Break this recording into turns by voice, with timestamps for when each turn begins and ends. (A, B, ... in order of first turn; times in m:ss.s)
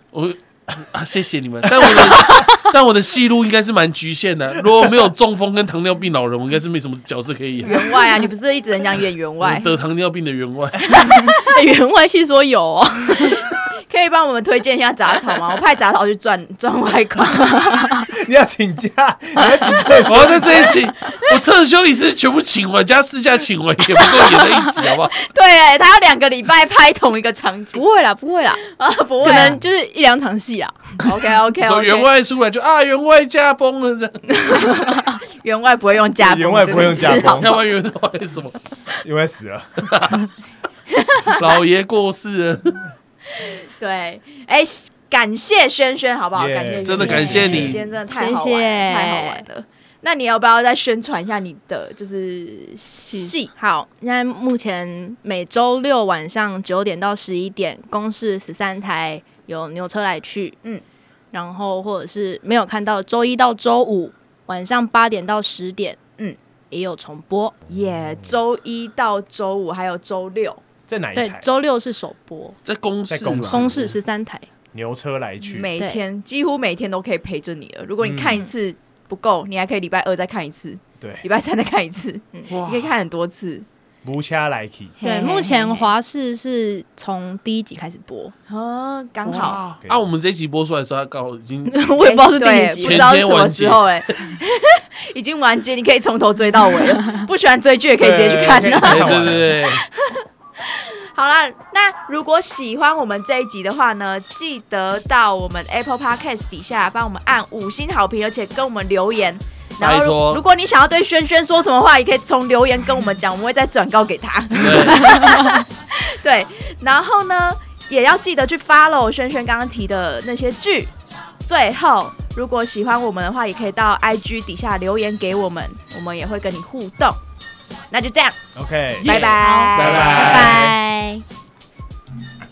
0:00.1-0:07.8 A
0:01.9-0:02.5 B
0:07.6-0:09.7 C
0:09.4-0:11.1 A
0:10.9-0:13.5 B
0:13.9-0:17.9 C
0:18.2-0:20.5 D
0:20.1-0:25.1 A
0:25.1-0:27.8 C
0:27.8-0:28.6 B
0:28.6-0:29.6 C
0:29.2-0:31.1 B
0:31.0-0:32.1 C
0:31.6-0:34.9 A
0:35.4-0:37.5 C
0:36.2-0:37.6 D
0:37.2-0:38.6 A
0:39.0-0:39.9 D
0:39.8-0:40.2 A
0:41.0-0:41.4 C
0:41.3-0:42.9 A
0:43.3-0:53.5 C
0:46.4-0:47.8 D
0:46.8-0:47.8 A
0:47.1-0:49.4 B
0:53.1-1:00.6 B
1:01.3-1:06.0 B
1:06.7-1:07.6 B
1:07.7-1:10.6 C
1:10.9-1:11.5 D
1:11.2-1:12.6 B
1:12.6-1:13.7 A
1:13.1-1:14.0 D
1:13.5-1:14.5 B
1:14.7-1:15.7 D
1:15.5-1:23.7 C
1:18.0-1:18.5 D
1:21.0-1:21.2 D
1:22.5-1:22.9 A
1:24.0-1:25.0 D
1:25.0-1:25.9 C
1:25.0-1:28.3 B
1:28.5-1:29.6 C
1:29.3-1:31.8 A
1:29.8-1:30.1 D
1:31.7-1:33.1 B
1:32.0-2:07.2 C
1:32.8-1:34.3 A
1:38.0-1:39.6 D
1:38.8-1:39.8 A
1:49.8-1:50.4 A
1:54.6-1:55.3 A
1:55.0-1:55.5 B
2:07.9-2:08.4 C
2:08.6-2:09.2 D
2:09.0-2:10.2 C
2:09.0-2:10.6 A
2:09.2-2:11.2 B
2:09.7-2:10.8 D